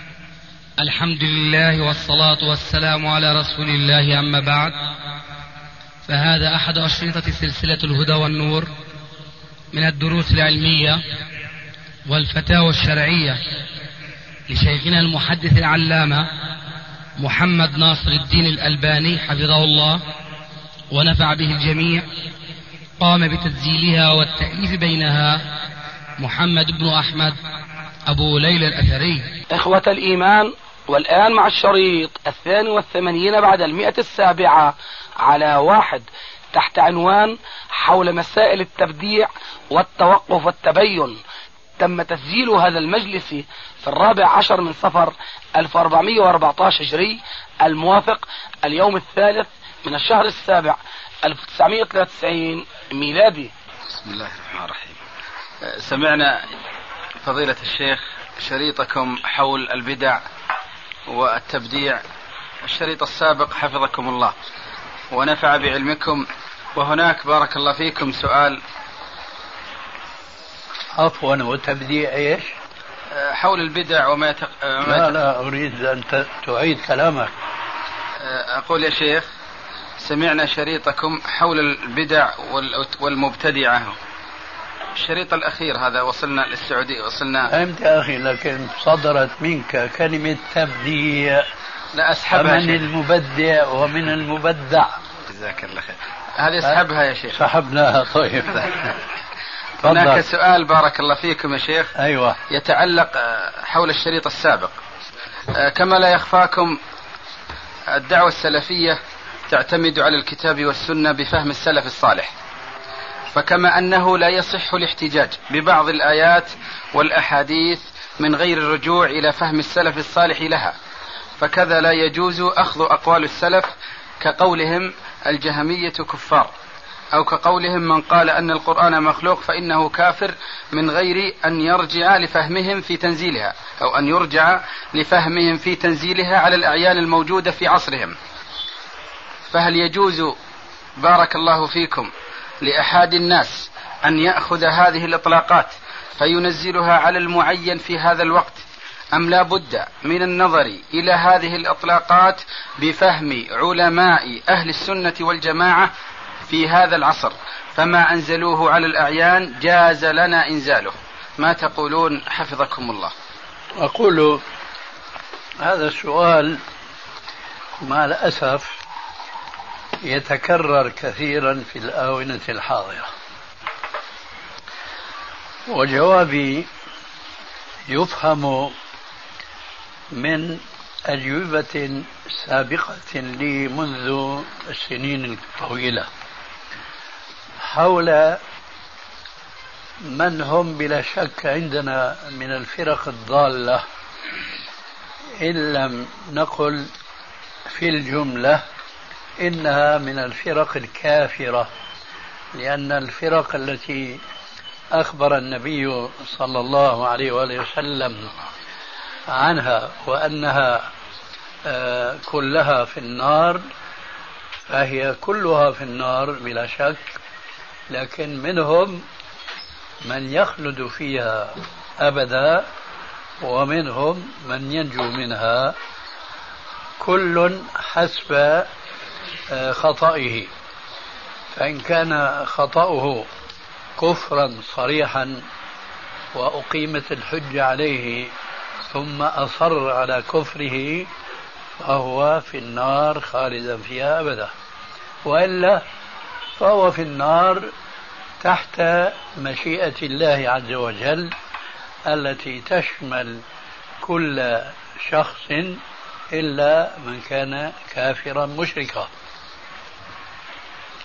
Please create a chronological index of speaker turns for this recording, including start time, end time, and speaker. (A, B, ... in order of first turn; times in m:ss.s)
0:00.8-0:04.8 A
0:06.1-0:08.7 A
0:09.7-0:11.0 A
0:12.1-0:13.4 A
0:14.5-0:16.3 A
0:17.2-0:20.0 A
0:20.9-0:22.1 A
0:23.0-0:25.4 A
0:26.2-0:27.4 A
0:28.1-0:29.3 A
0:29.5-0:41.2 B
0:41.8-0:53.5 B
0:54.0-0:55.0 C
0:55.6-0:56.5 C
0:57.2-1:00.2 C
1:01.1-1:02.0 C
1:02.6-1:04.4 C
1:05.1-1:08.6 C
1:11.0-1:12.5 D
1:13.1-1:15.2 C
1:14.8-1:17.3 D
1:18.2-1:19.3 C
1:20.0-1:24.0 C
1:25.0-1:27.5 C
1:27.5-1:31.5 D
1:31.9-1:32.9 C
1:32.3-1:35.0 D
1:35.3-1:37.4 C
1:37.3-1:38.8 D
1:39.8-1:41.9 C
1:39.8-1:40.2 D
1:42.0-1:42.4 D
1:42.5-1:44.8 C
1:45.5-1:46.8 C
1:47.9-1:52.3 C
1:53.3-2:00.8 C
2:01.4-2:06.5 C
2:07.1-2:18.2 C
2:19.5-2:20.4 C
2:21.0-2:35.9 C
2:36.5-2:43.1 C
2:43.8-2:44.4 D
2:45.6-2:46.6 D
2:47.8-2:48.8 D
2:50.0-2:53.1 D
2:55.7-2:56.7 D
2:57.9-2:58.8 D
3:00.1-3:06.1 D
3:07.6-3:08.4 D
3:10.0-3:13.8 D
3:15.4-3:16.9 D
3:17.7-3:18.6 D
3:19.4-3:21.7 D
3:22.6-3:24.2 D
3:24.9-3:28.3 D
3:29.3-3:30.9 D
3:31.6-3:33.6 D
3:34.7-3:37.1 D
3:37.9-3:39.0 D
3:40.0-3:42.7 D
3:43.4-3:45.8 D
3:47.0-3:48.7 D
3:49.5-3:50.5 D
3:51.5-3:53.3 D
3:54.0-3:55.4 D
3:56.3-3:58.3 D
3:58.9-4:01.1 D
4:01.8-4:04.5 D
4:05.3-4:05.8 D
4:06.6-4:07.7 D
4:08.4-4:11.3 D
4:12.1-4:13.4 D
4:14.0-4:19.1 D